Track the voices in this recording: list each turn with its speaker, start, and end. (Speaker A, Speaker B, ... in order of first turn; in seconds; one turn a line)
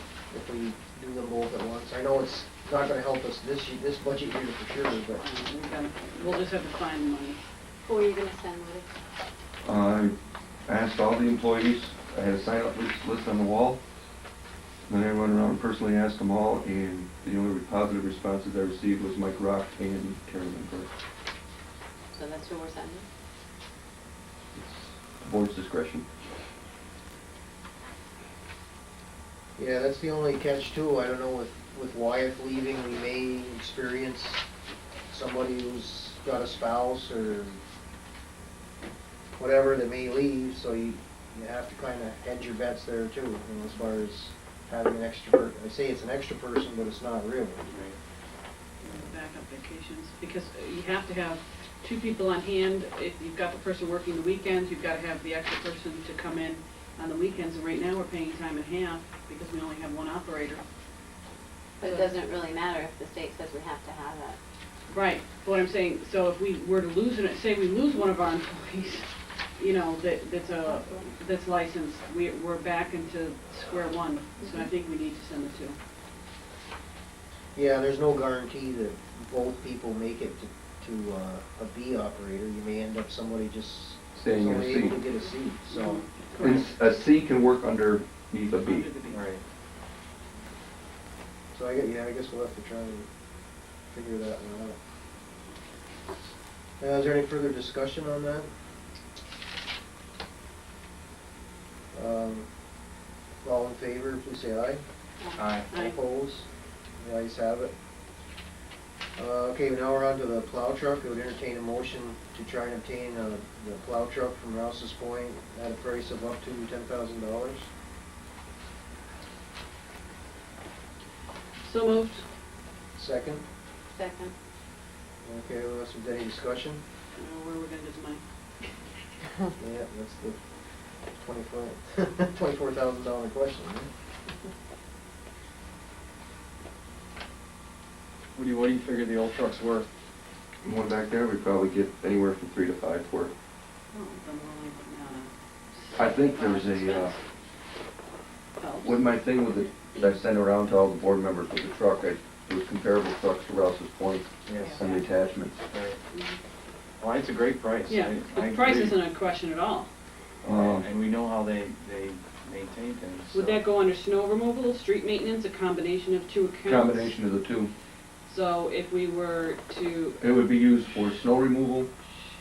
Speaker A: 0.3-5.2
Speaker B: 5.2-7.4
Speaker C: 7.8-8.9
Speaker D: 9.6-10.1
Speaker D: 10.7-13.8
Speaker D: 14.9-20.9
Speaker C: 22.1-23.1
Speaker D: 24.5-26.1
Speaker A: 29.6-34.4
Speaker A: 35.1-37.6
Speaker A: 39.4-47.8
Speaker E: 47.7-48.0
Speaker B: 48.8-60.6
Speaker C: 61.8-64.4
Speaker B: 61.8-62.1
Speaker B: 64.9-75.8
Speaker A: 77.5-86.0
Speaker D: 84.2-85.0
Speaker B: 85.7-86.7
Speaker D: 86.4-88.9
Speaker B: 88.6-89.2
Speaker E: 89.1-89.4
Speaker A: 91.5-93.1
Speaker A: 93.9-94.8
Speaker A: 96.8-98.5
Speaker A: 101.9-102.5
Speaker A: 103.4-104.8
Speaker E: 105.3-105.7
Speaker A: 105.6-106.5
Speaker B: 105.7-106.0
Speaker A: 107.0-107.7
Speaker A: 109.2-117.7
Speaker B: 121.6-122.2
Speaker A: 122.9-123.4
Speaker C: 123.9-124.3
Speaker A: 125.2-126.8
Speaker B: 127.2-128.2
Speaker A: 129.6-130.4
Speaker A: 131.2-133.9
Speaker E: 138.3-139.9
Speaker D: 140.6-143.3
Speaker B: 143.9-147.2
Speaker D: 145.9-147.1
Speaker B: 148.6-149.0
Speaker D: 148.8-155.6
Speaker E: 154.4-154.8
Speaker B: 154.6-155.0
Speaker E: 155.7-156.0
Speaker B: 156.1-156.4
Speaker E: 157.0-159.0
Speaker B: 157.9-159.9
Speaker D: 160.4-160.9
Speaker E: 160.5-163.6
Speaker B: 163.3-167.2
Speaker D: 166.6-167.7
Speaker B: 168.3-170.2
Speaker D: 170.2-171.9